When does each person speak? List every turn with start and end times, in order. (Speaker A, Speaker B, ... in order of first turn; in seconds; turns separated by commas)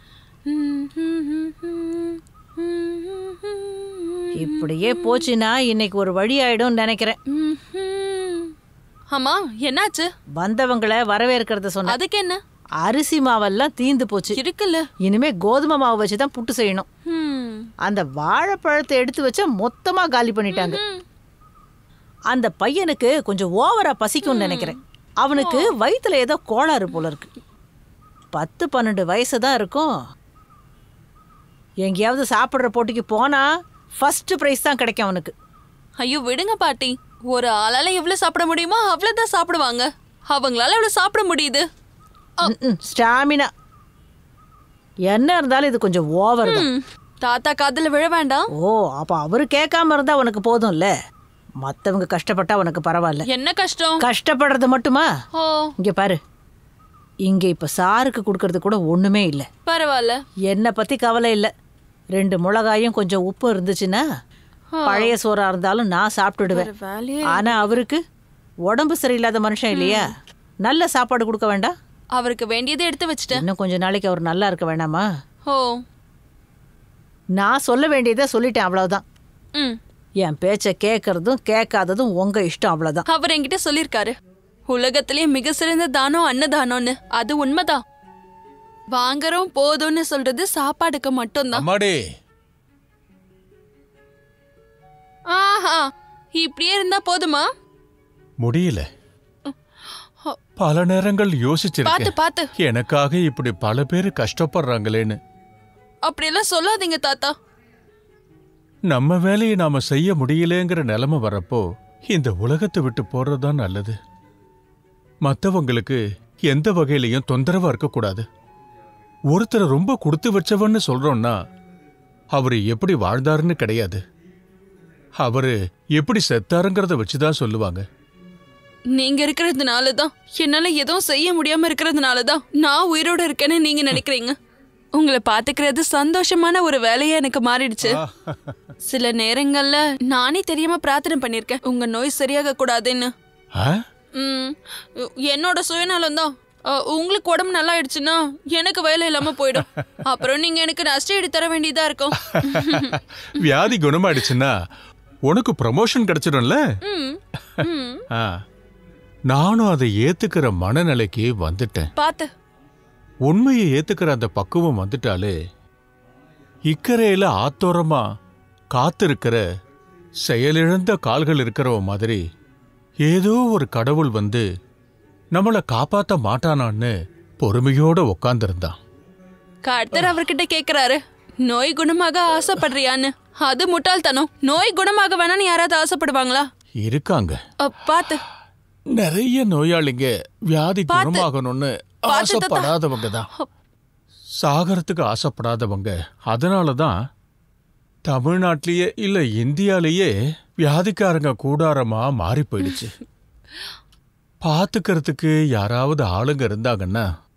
Speaker A: 0.5-5.2, Speaker B: 4.4-7.2, Speaker A: 7.3-8.5, Speaker A: 9.1-10.1, Speaker B: 10.4-12.0, Speaker A: 11.8-12.4, Speaker B: 12.8-14.4, Speaker A: 14.3-14.8, Speaker B: 15.0-16.9, Speaker A: 17.1-17.7, Speaker B: 17.8-20.8, Speaker A: 20.5-21.0, Speaker B: 22.3-27.3, Speaker A: 24.2-24.8, Speaker A: 25.3-25.7, Speaker B: 28.3-29.9, Speaker B: 31.8-33.5, Speaker B: 34.0-35.3, Speaker A: 36.0-41.6, Speaker B: 42.4-43.5, Speaker B: 45.1-46.7, Speaker A: 46.4-48.5, Speaker B: 48.6-50.9, Speaker B: 51.6-53.2, Speaker A: 53.2-54.0, Speaker B: 54.0-55.1, Speaker A: 55.3-55.7, Speaker B: 55.8-56.2, Speaker B: 57.3-59.5, Speaker A: 59.6-60.2, Speaker B: 60.5-61.5, Speaker B: 62.1-64.0, Speaker A: 64.7-65.1, Speaker B: 64.8-66.7, Speaker A: 66.4-67.7, Speaker B: 67.2-68.0, Speaker B: 68.7-70.1, Speaker A: 69.7-70.1, Speaker B: 70.6-71.7, Speaker A: 72.2-73.4, Speaker B: 73.3-75.0, Speaker A: 75.5-75.8, Speaker B: 77.4-79.0, Speaker B: 80.2-83.0, Speaker A: 83.1-84.1, Speaker A: 84.7-87.8, Speaker A: 88.9-91.6, Speaker C: 91.5-92.0, Speaker A: 95.3-97.5, Speaker C: 98.4-98.9, Speaker C: 100.6-105.2, Speaker A: 101.8-102.5, Speaker A: 106.1-107.3, Speaker C: 108.9-114.0, Speaker C: 115.2-118.2, Speaker C: 119.3-121.4, Speaker C: 122.3-124.0, Speaker C: 125.2-127.8, Speaker A: 128.9-134.3, Speaker A: 134.9-138.0, Speaker C: 137.8-138.7, Speaker A: 138.8-143.1, Speaker C: 143.5-143.8, Speaker A: 144.1-154.3, Speaker C: 152.2-154.5, Speaker C: 155.3-156.6, Speaker A: 156.8-158.0, Speaker C: 157.6-158.4, Speaker C: 159.3-161.9, Speaker A: 161.9-162.3, Speaker C: 163.3-165.4, Speaker C: 166.7-168.1, Speaker C: 168.7-169.4, Speaker C: 170.2-172.2, Speaker C: 173.0-174.4, Speaker C: 175.3-178.8, Speaker A: 179.6-186.5, Speaker C: 186.8-187.4, Speaker A: 187.6-188.2, Speaker C: 188.9-193.3, Speaker A: 190.9-191.3, Speaker A: 192.1-193.5, Speaker C: 194.4-197.0, Speaker C: 198.1-200.1, Speaker C: 200.6-202.9, Speaker C: 204.4-207.0